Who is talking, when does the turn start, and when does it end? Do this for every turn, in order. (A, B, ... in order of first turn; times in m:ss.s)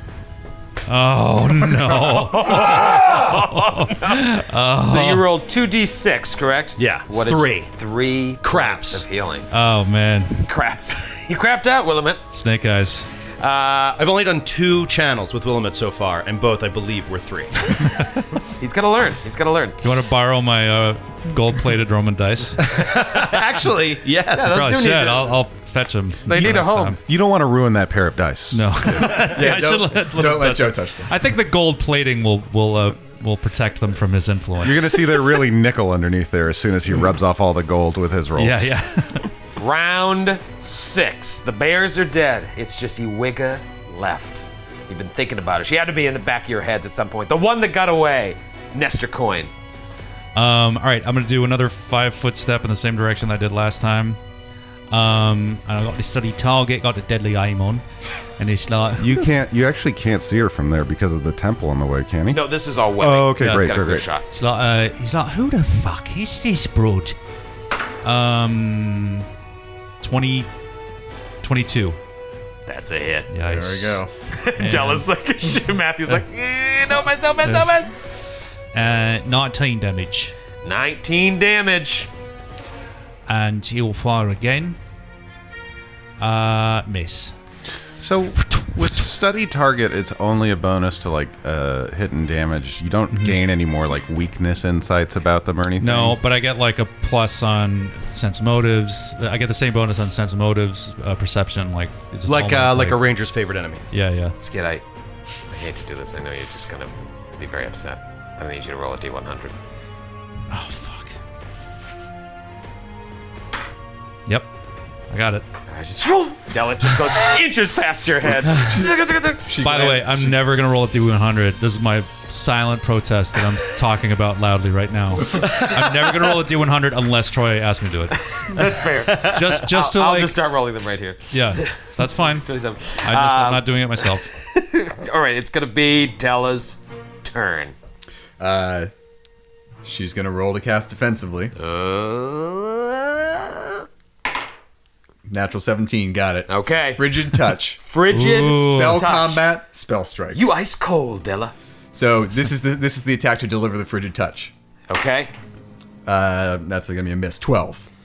0:00.9-0:05.2 A
0:01.9-0:09.5 B
0:06.8-0:07.7 C
0:08.4-0:09.0 C
0:09.5-0:10.5 A
0:10.5-0:12.2 B
0:12.3-0:13.1 A
0:13.4-0:14.0 B
0:14.0-0:17.7 C
0:18.6-0:19.8 B
0:19.8-0:22.7 A
0:22.6-0:24.6 C
0:24.3-0:25.4 B
0:24.5-0:27.0 A
0:26.3-0:27.0 B
0:27.0-0:29.3 D
0:28.5-0:35.4 A
0:29.0-0:31.1 E
0:34.6-0:38.7 D
0:38.4-0:39.3 A
0:39.6-0:49.5 B
0:50.4-0:54.2 A
0:54.9-0:57.8 A
0:58.4-0:59.3 A
0:59.0-1:04.0 D
1:02.3-1:04.3 B
1:03.4-1:07.2 A
1:08.0-1:09.3 A
1:10.0-1:10.5 A
1:11.4-1:12.0 A
1:12.7-1:13.3 B
1:13.3-1:14.0 A
1:13.4-1:14.1 E
1:14.3-1:17.9 B
1:14.6-1:15.1 A
1:17.5-1:17.8 A
1:18.7-1:20.4 A
1:20.6-1:22.1 B
1:23.3-1:24.8 A
1:26.2-1:27.3 A
1:28.0-1:36.2 D
1:28.6-1:28.9 A
1:33.1-1:33.4 A
1:35.8-1:43.0 A
1:42.3-1:43.8 C
1:43.9-1:44.4 A
1:44.4-1:44.8 B
1:45.5-1:49.6 B
1:50.5-1:51.2 A
1:55.1-1:55.4 A
1:55.7-1:59.5 B
1:58.5-2:00.4 E
1:59.6-2:08.6 A
2:08.3-2:17.8 B
2:09.2-2:10.4 A
2:11.3-2:12.5 A
2:13.0-2:14.4 A
2:18.4-2:18.9 E
2:19.8-2:21.6 E
2:21.6-2:23.8 B
2:25.3-2:27.8 E
2:26.5-2:27.2 B
2:27.8-2:29.4 B
2:28.1-2:29.0 A
2:28.6-2:30.5 E
2:30.3-2:31.5 B
2:31.9-2:34.5 E
2:34.9-2:35.3 B
2:36.0-2:37.9 E